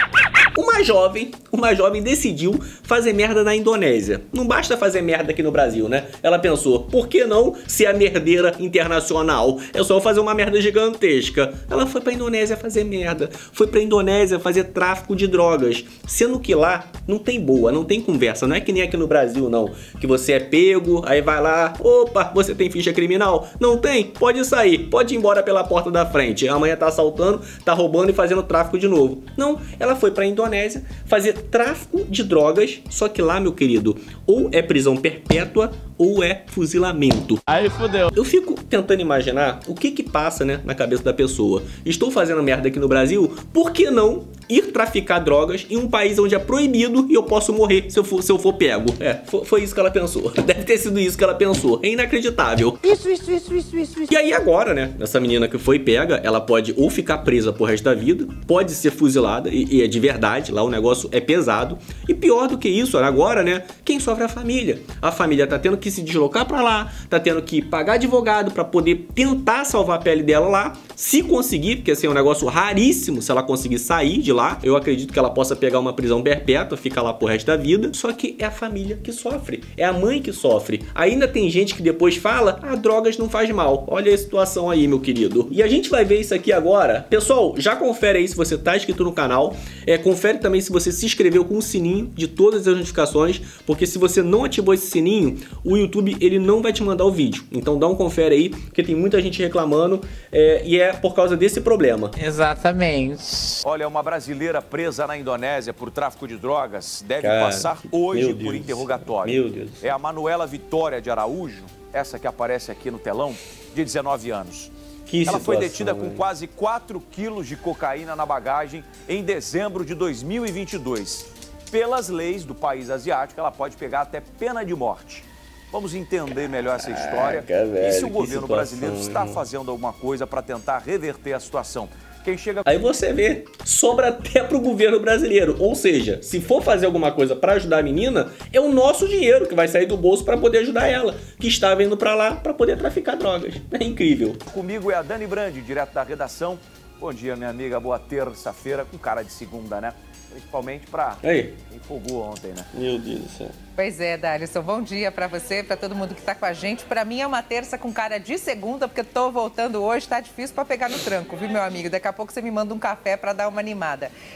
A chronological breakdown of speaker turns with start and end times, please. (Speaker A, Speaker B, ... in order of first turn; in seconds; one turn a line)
Speaker A: 0.5-52.9
Speaker B: 37.5-38.1
Speaker B: 52.8-54.1
Speaker A: 54.1-102.1
Speaker B: 102.2-103.6
Speaker C: 103.6-114.7
Speaker A: 107.2-109.9
Speaker A: 115.1-116.2
Speaker C: 115.2-132.7
Speaker A: 126.8-129.4
Speaker A: 132.7-144.4
Speaker C: 144.5-152.7
Speaker A: 151.2-151.6
Speaker A: 152.7-153.6
Speaker D: 153.8-164.1